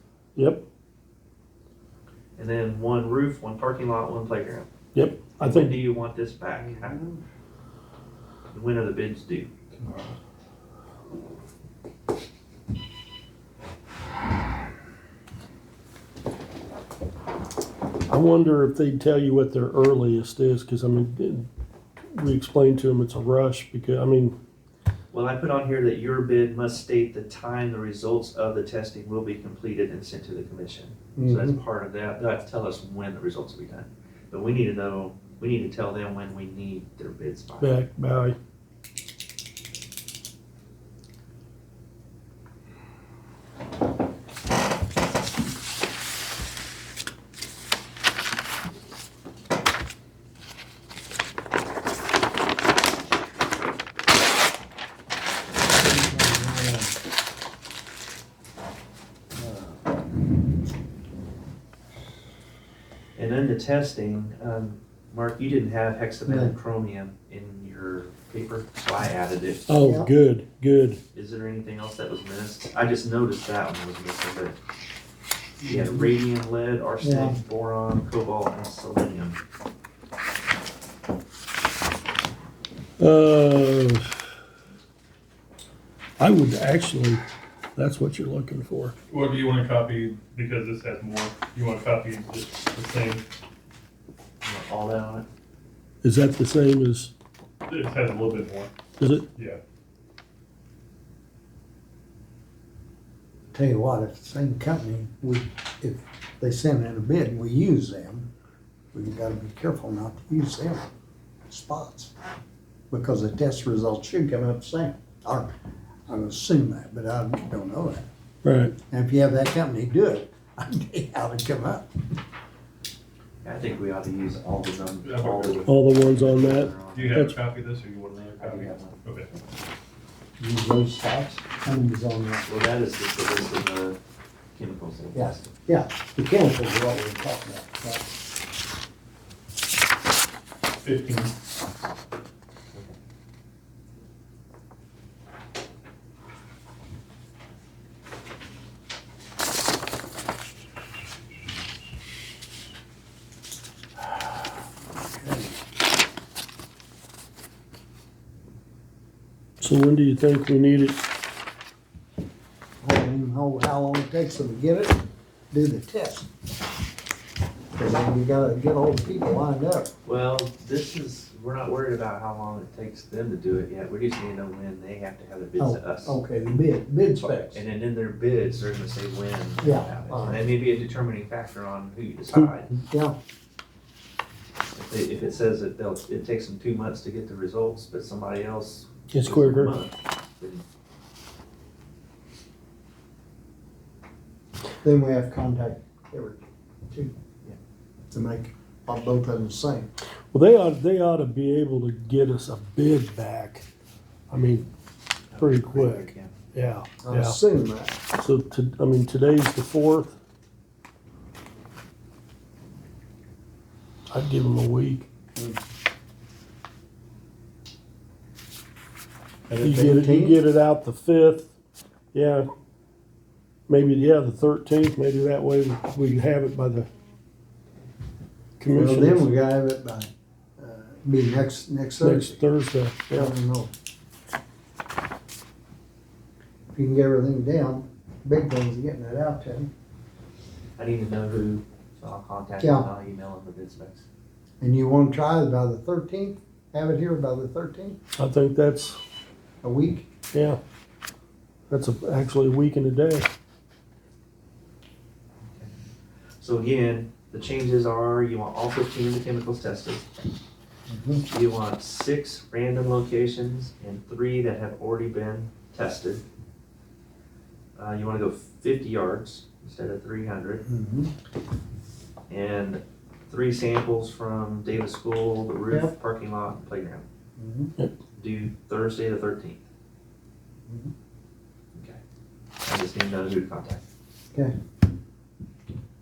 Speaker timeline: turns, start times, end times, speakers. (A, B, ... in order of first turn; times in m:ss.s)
0:00.4-0:00.6 A
0:02.4-0:04.7 B
0:04.9-0:05.8 A
0:05.4-0:07.1 B
0:06.6-0:07.2 C
0:08.5-0:09.5 B
0:09.7-0:10.1 C
0:18.1-0:21.5 A
0:22.1-0:24.3 A
0:25.1-0:37.8 B
0:31.2-0:31.6 C
0:37.6-0:38.4 A
0:55.7-0:57.0 C
0:59.4-0:59.9 C
1:03.2-1:09.6 B
1:06.2-1:06.5 C
1:09.7-1:11.0 A
1:09.8-1:10.1 C
1:11.1-1:14.6 B
1:15.6-1:19.4 B
1:15.7-1:16.0 C
1:17.0-1:17.4 C
1:23.0-1:24.2 A
1:26.2-1:27.2 A
1:27.8-1:29.0 A
1:29.1-1:33.2 D
1:34.4-1:35.2 B
1:36.0-1:37.1 A
1:37.7-1:38.7 D
1:39.0-1:39.3 A
1:43.5-1:48.3 C
1:48.9-1:50.9 C
1:51.5-1:52.1 C
1:52.9-1:55.5 C
1:56.1-1:58.1 C
1:58.4-1:58.8 A
1:58.9-2:01.9 C
2:03.4-2:07.2 B
2:05.0-2:05.7 D
2:05.6-2:07.4 A
2:06.9-2:09.3 D
2:08.3-2:09.4 B
2:10.4-2:12.4 C
2:12.4-2:14.0 B
2:14.5-2:15.5 B
2:15.1-2:18.1 C
2:20.8-2:21.3 D
2:34.9-2:35.6 C
2:39.6-2:41.0 A
2:42.8-2:45.0 C
2:45.5-2:46.3 C
2:47.8-2:49.9 C
2:50.0-2:56.2 B
2:55.6-2:57.6 C
2:57.2-3:02.7 B
2:59.6-3:00.4 C
3:02.9-3:03.1 C
3:04.7-3:10.6 B
3:09.1-3:09.7 A
3:14.8-3:17.1 C
3:18.1-3:19.9 C
3:20.3-3:23.6 A
3:24.3-3:24.7 A
3:25.3-3:26.3 B
3:25.4-3:27.4 A
3:27.0-3:28.0 C
3:28.2-3:30.2 A
3:34.1-3:35.1 A
3:39.5-3:40.4 C
3:39.6-3:41.5 A
3:42.1-3:42.4 A
3:43.7-3:46.9 A
3:48.6-3:49.3 A
3:48.7-3:52.4 C
3:52.0-3:53.3 A
3:53.1-3:53.7 C
3:56.7-3:59.7 C
4:00.8-4:04.0 B
4:02.6-4:02.9 C
4:04.6-4:08.0 C
4:08.2-4:09.0 A
4:09.6-4:10.1 C
4:10.3-4:10.6 A
4:11.7-4:13.3 A
4:15.4-4:15.7 B
4:16.4-4:20.1 B
4:20.9-4:21.2 C
4:21.3-4:26.2 B
4:27.8-4:30.6 B
4:30.6-4:31.1 C
4:32.3-4:37.0 B
4:37.4-4:37.7 C
4:38.2-4:39.6 B
4:40.7-4:40.9 C
4:41.7-4:42.0 B
4:42.6-4:43.8 B